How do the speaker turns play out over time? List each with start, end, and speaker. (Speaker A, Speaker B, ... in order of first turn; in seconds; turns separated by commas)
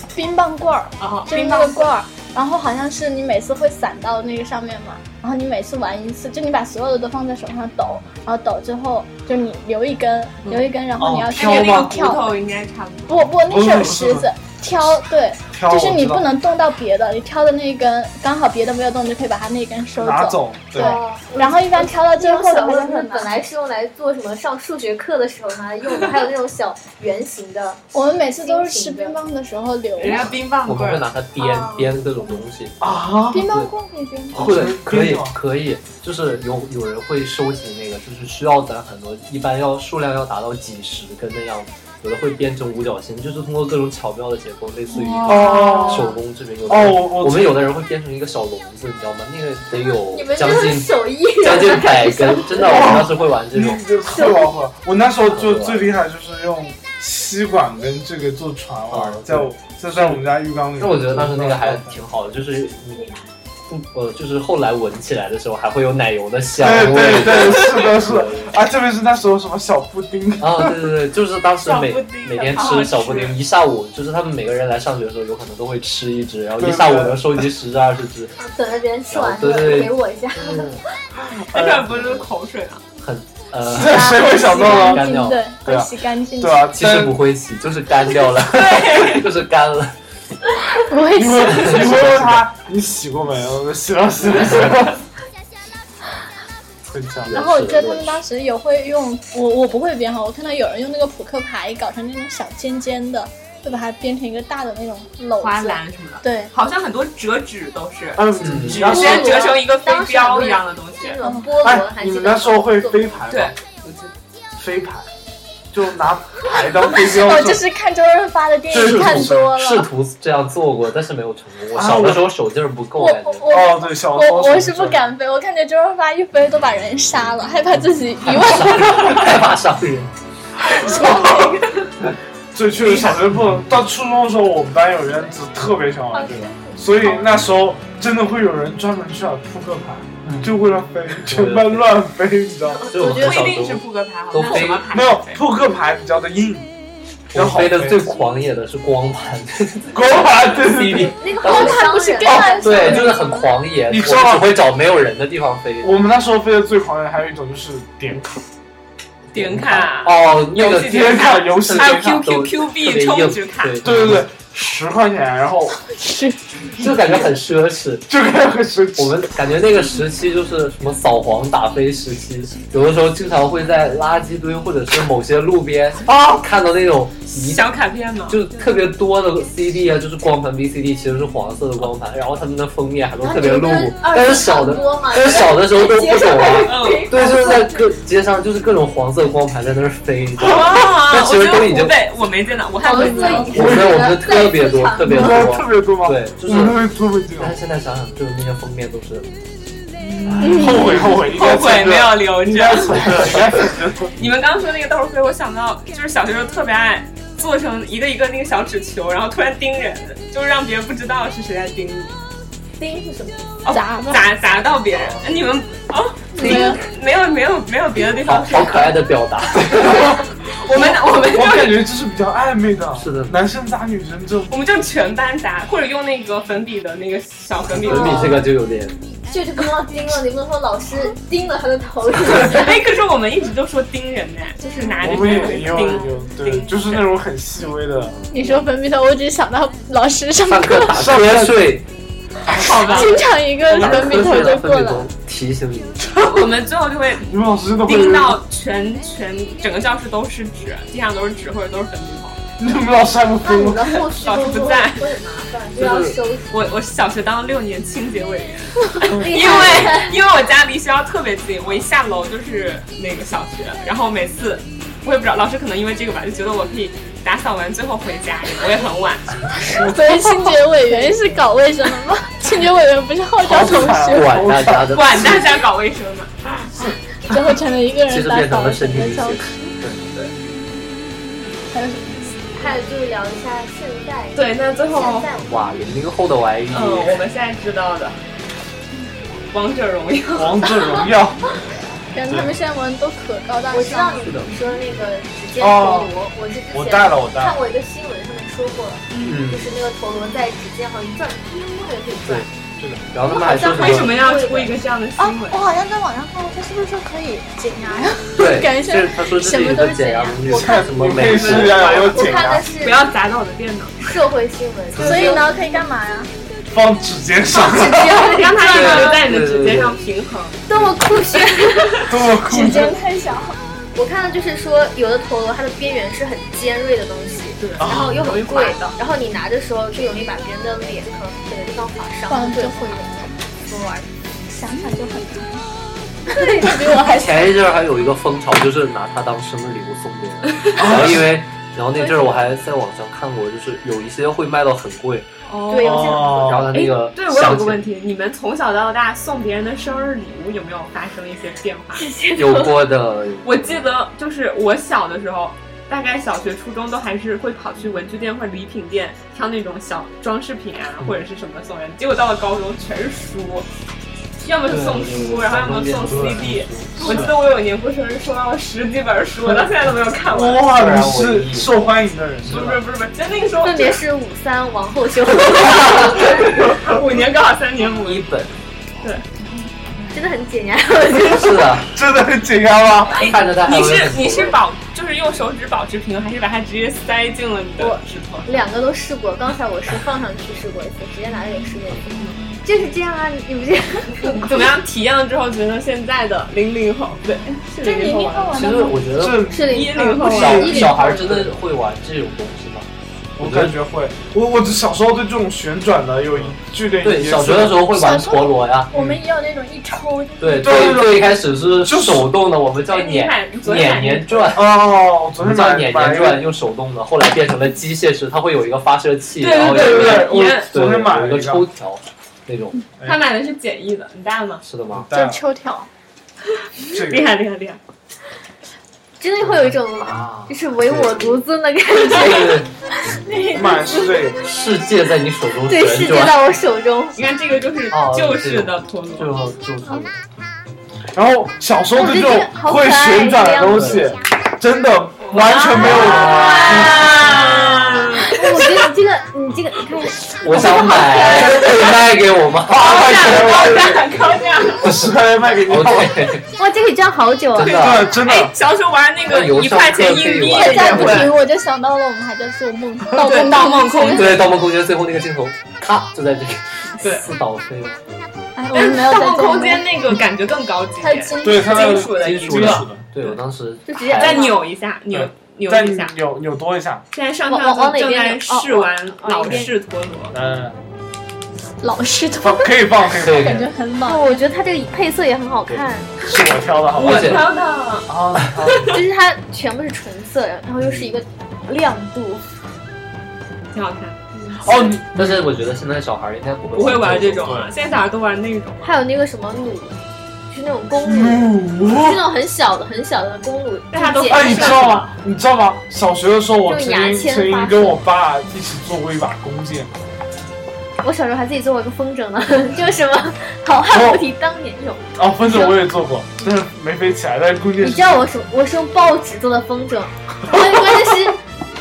Speaker A: 0.1-12.3, Speaker B: 1.0-1.9, Speaker C: 11.0-11.9, Speaker B: 11.3-13.3, Speaker A: 13.1-23.3, Speaker C: 13.5-14.3, Speaker C: 15.5-16.3, Speaker C: 20.0-20.9, Speaker D: 20.8-29.2, Speaker A: 27.9-30.2, Speaker B: 30.0-31.9, Speaker E: 30.6-32.9, Speaker C: 32.8-33.5, Speaker A: 33.3-34.4, Speaker E: 33.4-33.7, Speaker C: 34.3-35.4, Speaker E: 34.3-53.8, Speaker B: 44.9-46.1, Speaker C: 45.2-46.1, Speaker C: 46.7-47.7, Speaker D: 50.1-53.0, Speaker C: 52.6-62.0, Speaker D: 54.1-54.5, Speaker E: 55.3-55.9, Speaker E: 58.9-60.2, Speaker E: 60.8-63.1, Speaker E: 63.7-68.6, Speaker C: 66.5-70.8, Speaker E: 70.4-78.3, Speaker B: 71.6-73.4, Speaker C: 76.6-77.5, Speaker D: 78.4-80.8, Speaker E: 79.1-80.8, Speaker C: 81.3-81.9, Speaker B: 81.5-82.8, Speaker E: 81.9-82.2, Speaker E: 83.0-85.4, Speaker C: 83.7-85.1, Speaker A: 83.8-86.7, Speaker C: 85.6-87.2, Speaker E: 86.7-89.9, Speaker B: 88.4-89.2, Speaker A: 90.9-92.0, Speaker C: 91.1-95.0, Speaker E: 91.4-92.5, Speaker C: 96.8-97.3, Speaker E: 97.2-98.2, Speaker A: 97.3-106.5, Speaker B: 105.4-111.2, Speaker C: 108.2-109.5, Speaker E: 108.4-109.1, Speaker D: 108.8-113.2, Speaker C: 111.6-113.5, Speaker B: 113.3-114.1, Speaker C: 114.5-115.1, Speaker C: 115.7-117.6, Speaker A: 117.1-119.9, Speaker C: 118.7-119.5, Speaker E: 118.7-123.5, Speaker C: 121.7-122.3, Speaker A: 123.0-129.3, Speaker C: 123.5-125.1, Speaker E: 128.2-130.1, Speaker A: 130.8-131.3, Speaker C: 130.9-131.2, Speaker C: 132.5-142.9, Speaker D: 136.4-136.8, Speaker E: 140.2-140.5, Speaker E: 141.2-141.9, Speaker E: 142.9-144.9, Speaker A: 143.0-143.3, Speaker B: 143.1-145.4, Speaker C: 144.9-146.7, Speaker E: 147.3-156.0, Speaker C: 147.3-148.1, Speaker C: 149.9-151.2, Speaker D: 151.2-153.2, Speaker A: 151.4-153.5, Speaker C: 153.9-154.6, Speaker C: 155.8-158.4, Speaker B: 159.3-163.8, Speaker E: 159.3-164.2, Speaker C: 160.6-162.3, Speaker C: 163.8-165.8, Speaker A: 165.9-166.3, Speaker E: 166.8-168.1, Speaker C: 166.8-167.3, Speaker C: 168.1-169.3, Speaker E: 169.0-177.7, Speaker C: 176.1-176.4, Speaker B: 177.3-178.4, Speaker E: 178.3-191.9, Speaker D: 183.2-187.9, Speaker B: 186.6-187.1, Speaker B: 190.4-193.5, Speaker D: 192.8-195.5, Speaker A: 192.9-193.6, Speaker E: 193.5-196.8, Speaker C: 193.5-194.1, Speaker C: 195.1-197.6, Speaker E: 197.4-199.3, Speaker E: 200.3-201.0, Speaker C: 200.3-204.1, Speaker A: 200.4-200.9, Speaker B: 201.3-203.2, Speaker E: 203.0-203.4, Speaker B: 204.2-212.2, Speaker D: 212.8-213.6, Speaker B: 213.6-218.9, Speaker A: 213.7-214.2, Speaker E: 215.0-215.3, Speaker A: 216.4-216.8, Speaker E: 218.0-220.2, Speaker C: 219.8-220.1, Speaker B: 220.6-221.8, Speaker C: 221.2-224.6, Speaker E: 222.9-223.4, Speaker B: 224.5-228.4, Speaker E: 227.8-229.0, Speaker C: 227.9-228.3, Speaker D: 229.3-232.8, Speaker B: 232.4-237.1, Speaker C: 235.0-238.2, Speaker A: 238.3-240.9, Speaker E: 240.5-241.8, Speaker C: 240.9-241.7, Speaker C: 242.5-243.0, Speaker B: 242.5-244.2, Speaker A: 242.5-245.1, Speaker E: 243.7-246.2, Speaker B: 246.2-247.3, Speaker C: 247.3-248.4, Speaker B: 247.8-252.4, Speaker C: 252.6-254.0, Speaker D: 253.4-256.5, Speaker B: 254.1-255.0, Speaker E: 255.8-256.1, Speaker B: 256.5-269.4, Speaker D: 259.1-260.2, Speaker C: 259.1-259.6, Speaker A: 269.7-274.3, Speaker C: 273.4-275.2, Speaker E: 274.0-275.4, Speaker B: 274.9-276.3, Speaker A: 277.3-279.7, Speaker E: 278.1-280.0, Speaker A: 281.7-282.3, Speaker D: 282.6-285.8, Speaker B: 284.3-285.3, Speaker E: 285.5-287.2, Speaker B: 286.7-288.2, Speaker B: 289.5-290.8, Speaker C: 290.3-291.4, Speaker A: 292.1-294.3, Speaker D: 293.7-302.5, Speaker E: 294.2-294.5, Speaker C: 295.6-296.1, Speaker C: 296.7-297.6, Speaker B: 299.1-299.4, Speaker E: 299.2-299.8, Speaker C: 302.8-303.1, Speaker E: 303.1-304.2, Speaker D: 303.3-304.8, Speaker B: 303.6-305.6, Speaker A: 305.2-310.7, Speaker E: 308.4-311.9, Speaker C: 310.5-312.6, Speaker B: 311.2-314.2, Speaker D: 311.4-313.1, Speaker D: 314.0-315.6, Speaker E: 314.9-315.3, Speaker A: 314.9-316.3, Speaker C: 316.7-318.4, Speaker D: 317.5-319.2, Speaker B: 318.1-320.6, Speaker E: 318.6-320.0, Speaker D: 320.7-322.1, Speaker B: 321.3-322.0, Speaker C: 322.1-322.9, Speaker A: 322.5-323.5, Speaker D: 323.9-333.0, Speaker B: 327.6-329.0, Speaker C: 327.8-328.2, Speaker A: 332.3-333.3, Speaker D: 333.5-334.1, Speaker A: 334.5-335.6, Speaker A: 336.3-337.5, Speaker D: 336.4-336.9, Speaker E: 337.0-345.3, Speaker C: 340.8-341.3, Speaker B: 345.4-352.1, Speaker D: 345.7-346.6, Speaker C: 345.8-346.7, Speaker E: 346.3-347.8, Speaker D: 351.9-352.7, Speaker E: 352.3-353.8, Speaker B: 353.4-363.7, Speaker B: 364.4-370.7, Speaker E: 364.7-367.3, Speaker C: 366.1-367.3, Speaker C: 370.3-372.8, Speaker E: 370.7-371.7, Speaker B: 372.4-374.0, Speaker D: 373.6-376.7, Speaker E: 375.6-376.2, Speaker B: 375.7-378.2, Speaker E: 378.0-378.5, Speaker D: 380.1-381.8, Speaker E: 381.2-381.9, Speaker C: 381.9-383.3, Speaker E: 383.1-384.6, Speaker B: 383.1-388.5, Speaker D: 387.8-394.6, Speaker B: 394.4-398.7, Speaker A: 397.8-399.2, Speaker E: 398.5-399.6, Speaker C: 399.1-400.9, Speaker D: 399.5-401.3, Speaker B: 399.7-401.2, Speaker E: 400.2-403.8, Speaker C: 403.4-407.8, Speaker E: 406.3-409.1, Speaker A: 407.9-410.9, Speaker C: 408.9-409.2, Speaker E: 410.4-414.7, Speaker C: 410.6-412.3, Speaker B: 412.9-414.6, Speaker C: 414.5-416.5, Speaker E: 415.4-422.8, Speaker B: 419.4-420.7, Speaker C: 419.7-421.6, Speaker B: 423.0-424.6, Speaker E: 424.6-425.1, Speaker C: 424.9-425.4, Speaker A: 425.1-425.9, Speaker C: 426.9-427.3, Speaker B: 426.9-427.8, Speaker D: 429.2-432.6, Speaker E: 429.4-431.4, Speaker E: 432.0-432.7, Speaker D: 433.3-434.3, Speaker C: 433.5-434.5, Speaker E: 434.4-436.5, Speaker D: 435.7-437.2, Speaker B: 437.1-439.3, Speaker E: 437.9-440.1, Speaker C: 441.1-447.1, Speaker D: 441.9-444.0, Speaker E: 443.7-444.0, Speaker B: 445.2-448.3, Speaker E: 445.8-448.2, Speaker D: 445.9-446.7, Speaker D: 448.3-451.7, Speaker E: 450.4-453.7, Speaker B: 451.2-451.9, Speaker C: 452.7-454.0, Speaker B: 452.7-454.9, Speaker C: 454.8-456.4, Speaker E: 454.8-455.1, Speaker E: 455.6-456.4, Speaker D: 456.6-457.9, Speaker E: 457.5-458.1, Speaker B: 457.6-461.3, Speaker C: 457.7-458.5, Speaker E: 459.3-461.3, Speaker A: 460.4-464.4, Speaker B: 463.2-464.4, Speaker E: 464.1-468.0, Speaker B: 467.0-467.2, Speaker A: 468.6-469.9, Speaker B: 468.7-473.4, Speaker A: 471.0-472.1, Speaker C: 471.4-473.0, Speaker E: 472.0-474.5, Speaker D: 473.9-474.6, Speaker B: 474.1-476.1, Speaker C: 475.1-477.0, Speaker B: 477.1-480.3, Speaker D: 477.5-479.7, Speaker C: 480.3-480.8, Speaker A: 481.8-484.4, Speaker C: 482.4-483.6, Speaker E: 483.2-483.7, Speaker D: 484.0-486.1, Speaker C: 486.2-487.5, Speaker B: 486.9-488.1, Speaker E: 487.0-487.5, Speaker C: 488.1-489.0, Speaker B: 488.6-489.0, Speaker D: 488.9-492.4, Speaker B: 493.7-494.9, Speaker C: 494.6-495.4, Speaker E: 495.1-497.6, Speaker B: 496.7-498.9, Speaker C: 497.4-497.7, Speaker D: 498.8-499.9, Speaker D: 500.5-505.0, Speaker C: 501.0-502.2, Speaker B: 503.9-505.1, Speaker C: 504.3-510.0, Speaker D: 506.6-508.0, Speaker D: 511.0-515.8, Speaker C: 513.9-514.2, Speaker C: 515.1-518.2, Speaker D: 517.8-521.4, Speaker C: 520.5-521.1